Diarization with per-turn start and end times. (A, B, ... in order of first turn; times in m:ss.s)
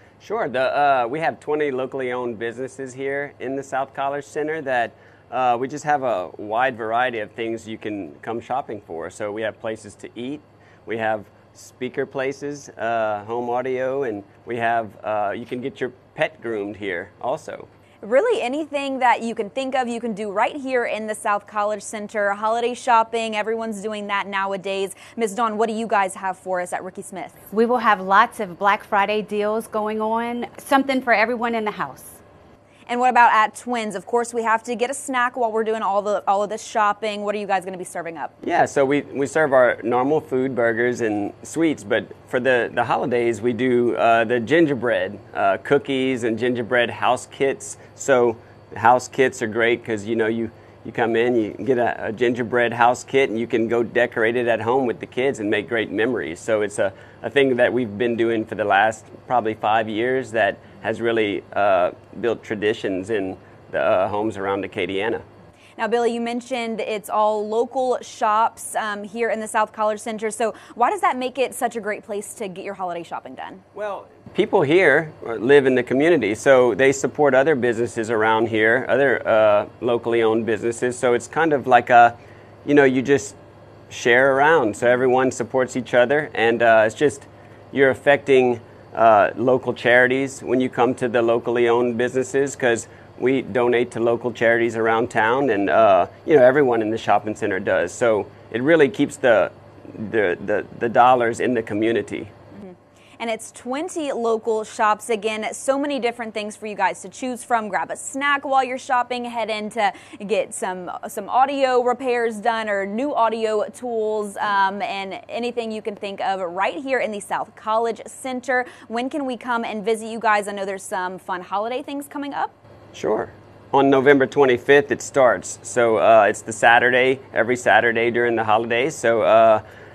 0:00.2-0:17.7 A
0:18.0-0:27.4 B
0:27.5-0:32.2 C
0:32.9-0:38.3 B
0:38.4-1:05.2 A
1:05.8-1:13.6 B
1:13.8-1:22.1 A
1:22.6-1:23.4 A
1:23.9-1:42.3 A
1:42.6-2:02.5 B
2:02.9-2:09.6 A